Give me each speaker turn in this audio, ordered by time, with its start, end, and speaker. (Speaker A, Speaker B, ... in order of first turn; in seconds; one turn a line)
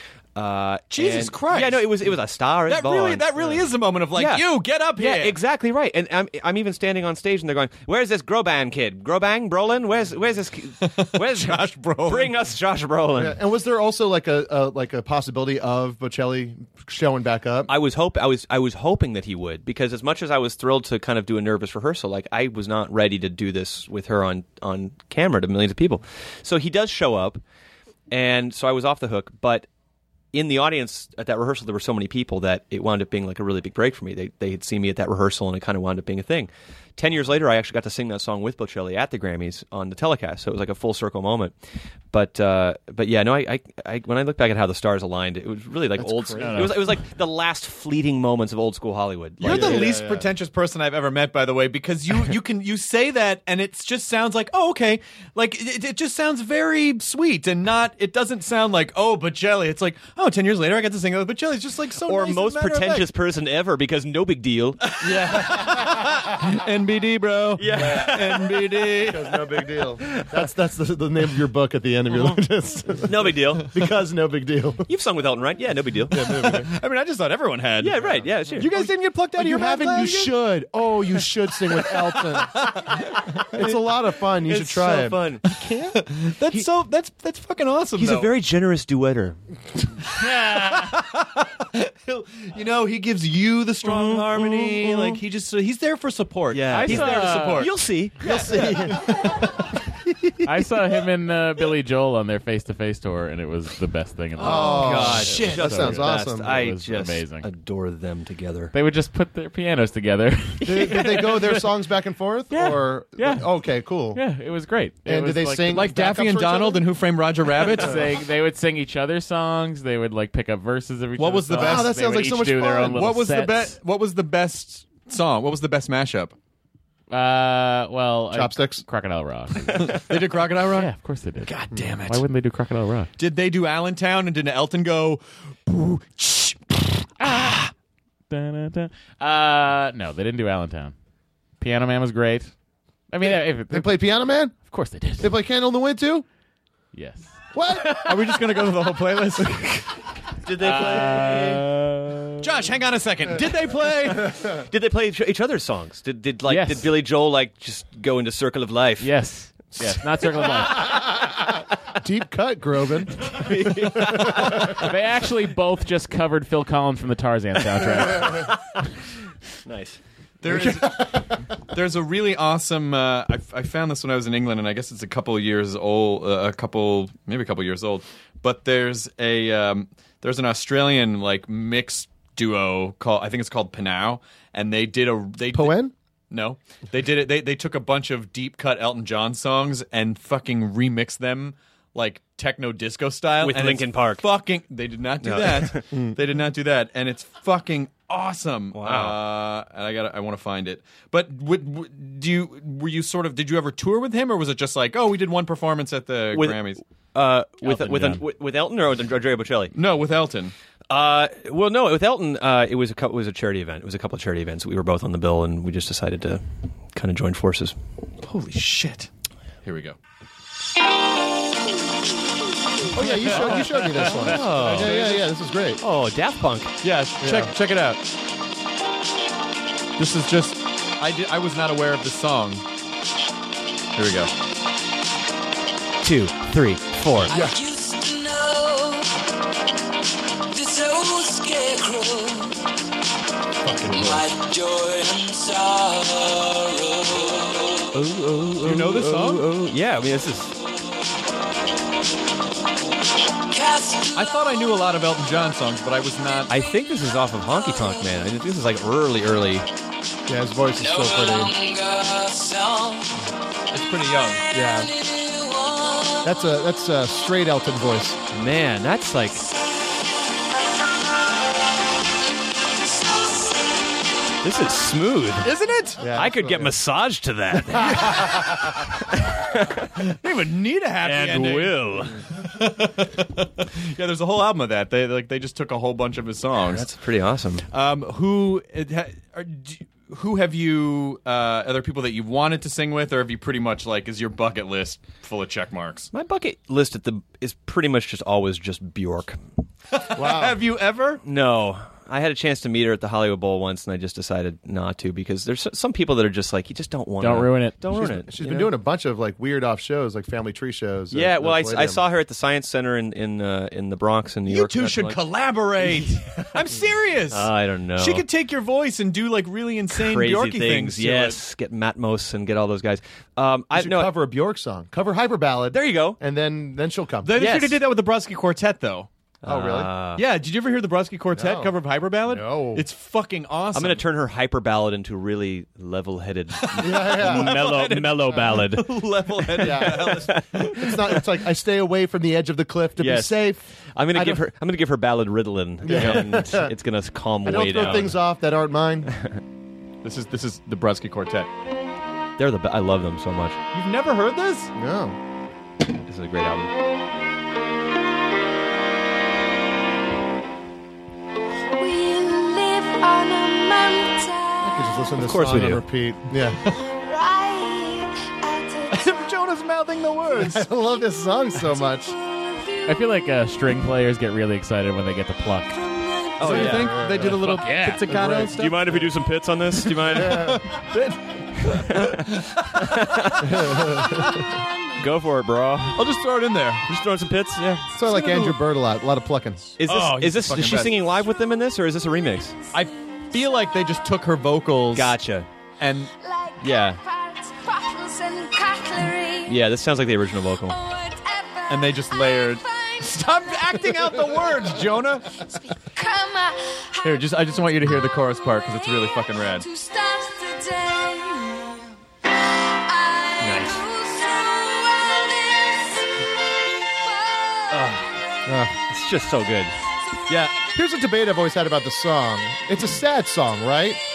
Speaker A: 0.3-3.5
Speaker B: 0.9-1.9
Speaker B: 2.6-5.4
Speaker A: 4.2-13.4
Speaker B: 10.8-12.4
Speaker C: 13.2-17.7
Speaker A: 17.7-27.4
Speaker A: 28.1-29.7
Speaker A: 30.3-41.5
Speaker A: 42.1-49.9
Speaker C: 46.0-46.8
Speaker D: 46.4-46.9
Speaker B: 49.4-63.1
Speaker C: 49.4-50.3
Speaker A: 62.0-64.8
Speaker B: 64.9-69.4
Speaker C: 65.0-66.1
Speaker A: 67.6-69.1
Speaker C: 67.8-68.1
Speaker C: 69.0-74.9
Speaker A: 73.0-73.8
Speaker A: 74.9-76.6
Speaker C: 76.1-76.7
Speaker B: 76.3-80.4
Speaker A: 77.8-78.7
Speaker C: 78.7-82.7
Speaker B: 81.8-83.0
Speaker C: 83.5-85.4
Speaker A: 84.4-85.9
Speaker B: 86.0-88.3
Speaker A: 88.0-89.4
Speaker B: 90.2-99.2
Speaker A: 93.8-95.2
Speaker A: 96.5-99.0
Speaker D: 96.7-97.7
Speaker C: 98.3-99.2
Speaker D: 100.4-107.5
Speaker C: 104.4-106.6
Speaker B: 104.4-105.7
Speaker A: 104.4-108.7
Speaker D: 108.7-111.7
Speaker C: 110.6-114.2
Speaker D: 112.5-113.5
Speaker D: 114.1-116.0
Speaker C: 115.0-116.8
Speaker B: 115.7-118.0
Speaker D: 117.6-123.8
Speaker B: 121.2-121.9
Speaker C: 121.5-123.0
Speaker B: 122.7-126.3
Speaker D: 127.1-130.1
Speaker C: 128.3-128.8
Speaker B: 129.7-130.9
Speaker D: 130.7-131.5
Speaker B: 131.4-132.2
Speaker D: 132.1-133.1
Speaker B: 133.2-136.6
Speaker D: 137.2-137.7
Speaker D: 138.3-140.9
Speaker D: 141.6-142.5
Speaker D: 143.1-144.0
Speaker C: 143.2-144.6
Speaker D: 144.5-145.3
Speaker C: 145.2-146.2
Speaker D: 146.9-148.1
Speaker C: 147.5-148.1
Speaker B: 147.9-149.8
Speaker A: 150.4-151.6
Speaker D: 150.6-152.5
Speaker B: 152.4-154.4
Speaker A: 154.5-159.1
Speaker D: 156.4-156.9
Speaker D: 159.0-161.1
Speaker A: 159.7-160.7
Speaker C: 162.0-163.4
Speaker A: 163.3-164.9
Speaker C: 163.9-164.6
Speaker D: 164.7-168.6
Speaker A: 169.6-170.0
Speaker B: 170.4-185.8
Speaker C: 185.5-185.9
Speaker B: 186.3-206.8
Speaker A: 193.4-194.2
Speaker A: 195.2-195.8
Speaker A: 198.7-199.2
Speaker A: 206.3-209.7
Speaker D: 207.6-208.2
Speaker B: 209.7-210.5
Speaker A: 210.9-217.8
Speaker B: 218.2-219.1
Speaker B: 219.6-219.9
Speaker C: 222.9-225.8
Speaker B: 223.2-225.3
Speaker A: 224.2-225.0
Speaker A: 225.8-226.7
Speaker B: 226.8-228.0
Speaker C: 227.2-227.5
Speaker B: 230.0-232.6
Speaker B: 233.9-234.3
Speaker A: 236.0-237.4
Speaker C: 237.3-237.6
Speaker E: 237.3-239.2
Speaker E: 240.5-242.7
Speaker B: 243.7-244.2
Speaker E: 243.9-247.9
Speaker A: 247.9-250.5
Speaker B: 248.6-249.5
Speaker E: 253.5-254.4
Speaker B: 254.1-256.5
Speaker A: 256.5-259.6
Speaker C: 260.3-261.5
Speaker E: 260.8-263.2
Speaker B: 263.7-264.4
Speaker C: 264.5-264.9
Speaker E: 264.5-266.3
Speaker C: 266.2-268.2
Speaker A: 268.3-269.4
Speaker E: 272.8-274.1
Speaker A: 274.4-275.5
Speaker B: 275.4-276.0
Speaker C: 276.0-276.8
Speaker A: 276.0-279.9
Speaker C: 277.7-278.6
Speaker B: 280.1-286.9
Speaker A: 281.0-282.2
Speaker A: 286.6-287.6
Speaker B: 287.7-296.1
Speaker A: 296.1-299.4
Speaker B: 299.9-301.2
Speaker C: 300.1-300.6
Speaker A: 301.2-308.7
Speaker D: 307.2-307.8
Speaker C: 307.9-312.0
Speaker A: 311.1-315.2
Speaker B: 314.5-321.4
Speaker A: 315.8-316.4
Speaker A: 317.3-318.2
Speaker A: 319.9-324.1
Speaker C: 323.7-327.3
Speaker A: 325.7-326.2
Speaker B: 327.2-329.1
Speaker A: 327.3-327.8
Speaker A: 329.4-330.2
Speaker C: 329.4-329.9
Speaker B: 330.1-334.0
Speaker C: 331.3-332.8
Speaker A: 333.7-341.2
Speaker B: 336.6-340.8
Speaker C: 336.8-337.7
Speaker C: 339.6-343.6
Speaker A: 343.0-348.2
Speaker C: 344.1-344.4
Speaker C: 345.8-346.7
Speaker B: 345.8-346.2
Speaker C: 347.4-349.1
Speaker B: 350.0-351.5
Speaker A: 352.4-353.6
Speaker B: 353.7-354.7
Speaker C: 354.7-355.2
Speaker A: 355.9-356.7
Speaker E: 361.7-365.0
Speaker C: 364.6-366.6
Speaker A: 365.2-365.8
Speaker E: 366.8-369.4
Speaker B: 368.9-370.7
Speaker C: 370.3-372.1
Speaker E: 371.9-373.0
Speaker D: 372.9-375.7
Speaker E: 375.7-376.8
Speaker A: 376.4-377.0
Speaker B: 376.4-379.1
Speaker C: 376.6-377.4
Speaker D: 377.4-378.1
Speaker C: 378.1-378.5
Speaker A: 378.1-380.6
Speaker B: 380.0-382.5
Speaker C: 380.1-380.6
Speaker A: 381.7-384.1
Speaker C: 383.4-384.3
Speaker E: 384.6-385.0
Speaker A: 385.0-386.1
Speaker B: 385.9-386.8
Speaker A: 386.9-387.8
Speaker C: 387.9-389.8
Speaker B: 388.0-388.6
Speaker A: 389.8-392.6
Speaker B: 389.8-391.0
Speaker B: 392.7-395.1
Speaker E: 392.8-393.8
Speaker A: 394.9-395.5
Speaker B: 395.8-396.1
Speaker E: 396.2-399.8
Speaker A: 396.6-397.0
Speaker A: 399.4-400.8
Speaker E: 400.6-407.4
Speaker B: 401.7-405.4
Speaker B: 407.0-409.6
Speaker E: 408.6-411.9
Speaker E: 412.8-418.2
Speaker A: 413.4-413.8
Speaker A: 417.7-418.1
Speaker C: 418.4-418.7
Speaker A: 418.9-419.7
Speaker A: 420.3-420.5
Speaker C: 420.7-424.0